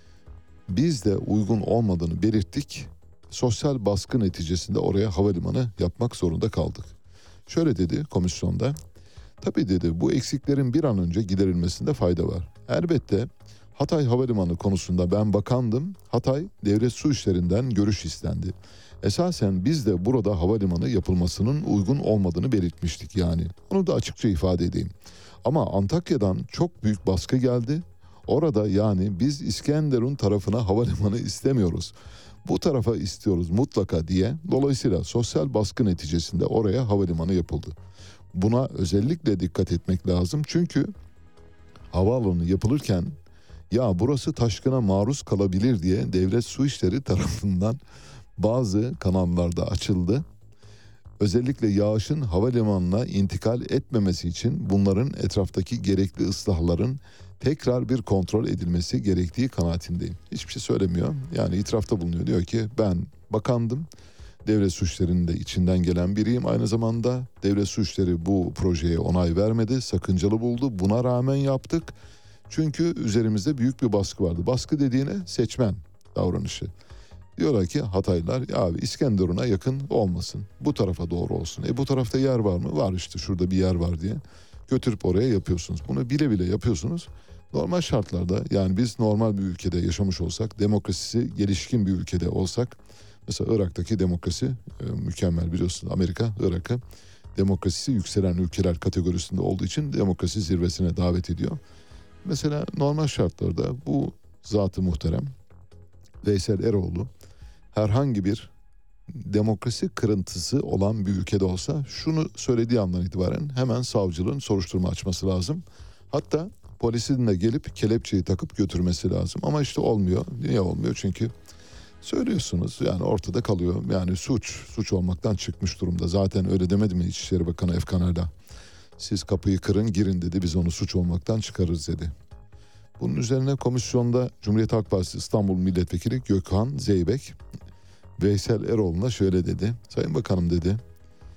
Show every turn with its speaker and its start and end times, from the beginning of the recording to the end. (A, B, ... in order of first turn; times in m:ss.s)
0:00.7-0:06.9 A
0:07.5-0:08.8 A
0:09.4-0:24.9 A
0:25.4-0:37.8 A
0:38.3-0:40.9 A
0:41.9-0:43.2 A
0:43.7-0:47.8 A
0:48.4-0:50.2 A
0:51.2-1:03.9 A
1:04.4-1:11.9 A
1:12.5-1:16.7 A
1:17.4-1:36.8 A
1:37.4-1:41.6 A
1:42.2-1:45.3 A
1:46.2-1:47.1 A
1:47.7-1:48.5 A
1:49.1-2:01.3 A
2:02.0-2:08.3 A
2:09.0-2:12.1 A
2:13.0-2:17.4 A
2:18.2-2:20.8 A